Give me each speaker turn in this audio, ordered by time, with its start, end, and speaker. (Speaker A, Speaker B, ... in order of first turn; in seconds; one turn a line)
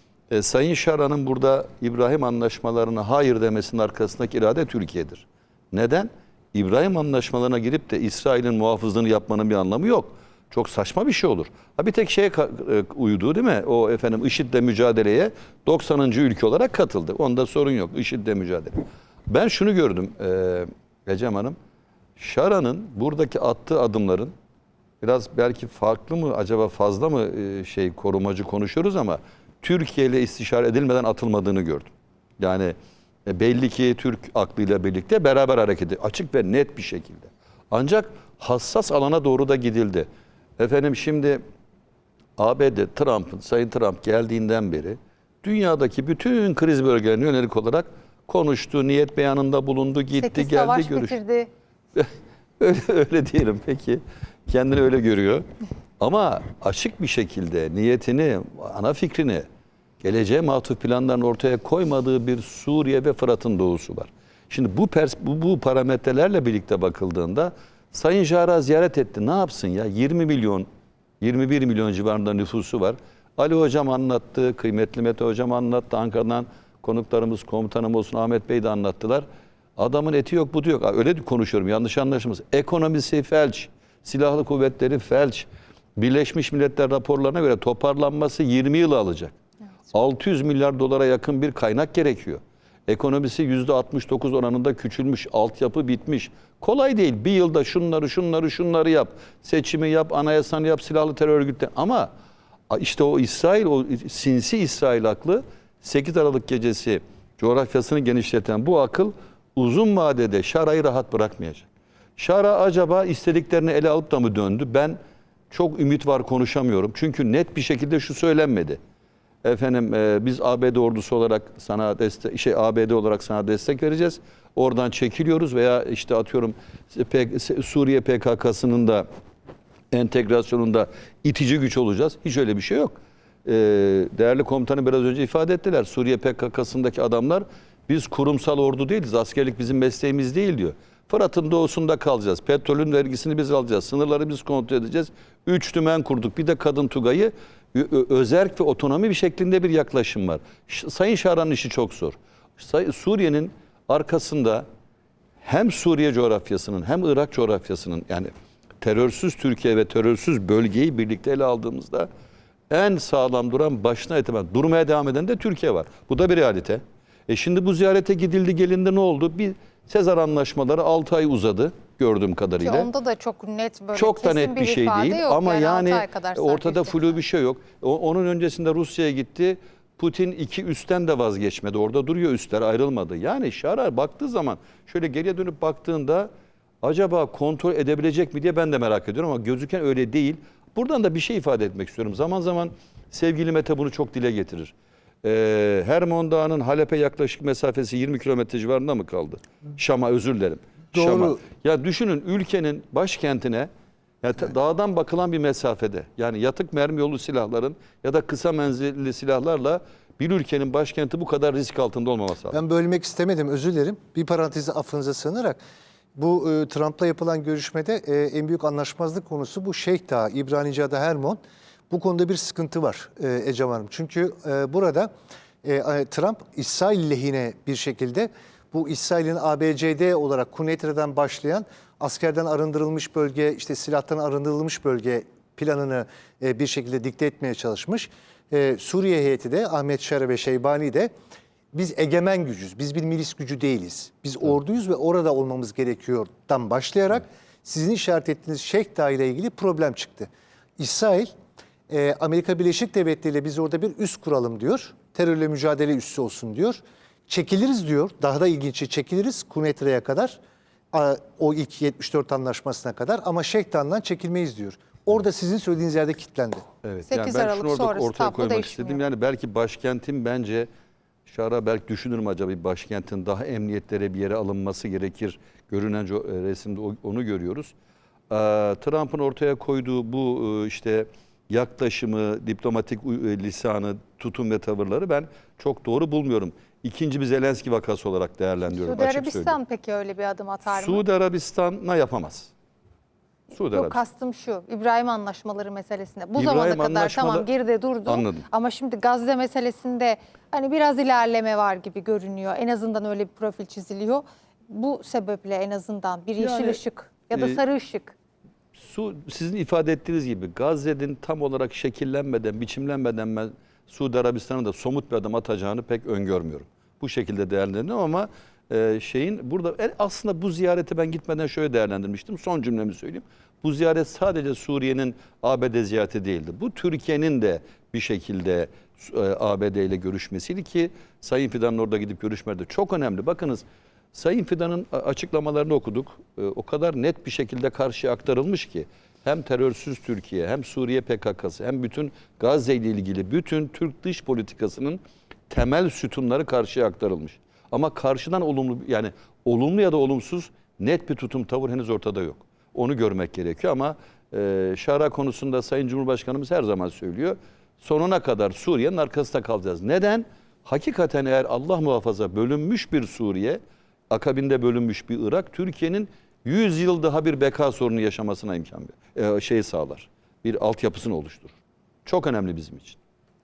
Speaker A: 0.3-21.6
Speaker A: 22.2-24.3
Speaker A: 25.0-32.7
Speaker A: 33.3-40.1
Speaker A: 40.6-41.4
Speaker A: 42.4-51.2
Speaker B: 50.1-51.5
Speaker A: 51.9-55.4
Speaker A: 56.0-59.4
Speaker A: 60.0-70.7
Speaker A: 71.2-79.2
Speaker A: 79.8-89.3
Speaker A: 89.9-102.1
Speaker A: 102.7-115.0
Speaker A: 115.5-118.8
Speaker A: 119.4-129.1
Speaker A: 129.9-154.6
Speaker A: 155.4-162.1
Speaker A: 162.7-172.9
Speaker B: 172.6-177.2
Speaker A: 173.9-186.3
Speaker A: 186.8-203.7
Speaker C: 200.9-201.4
Speaker A: 204.2-212.6
Speaker C: 212.5-215.6
Speaker C: 216.2-225.1
Speaker C: 225.6-241.1
Speaker C: 241.7-251.3
Speaker C: 251.9-260.4
Speaker C: 260.9-266.6
Speaker A: 266.8-270.7
Speaker B: 267.1-269.0
Speaker A: 271.3-277.7
Speaker A: 278.3-289.6
Speaker B: 288.7-291.0
Speaker A: 290.6-292.5
Speaker A: 293.5-294.0
Speaker B: 293.6-308.1
Speaker A: 296.4-297.5
Speaker A: 298.1-298.5
Speaker A: 306.4-306.8
Speaker A: 307.3-307.6
Speaker A: 308.7-363.6
Speaker A: 364.1-373.0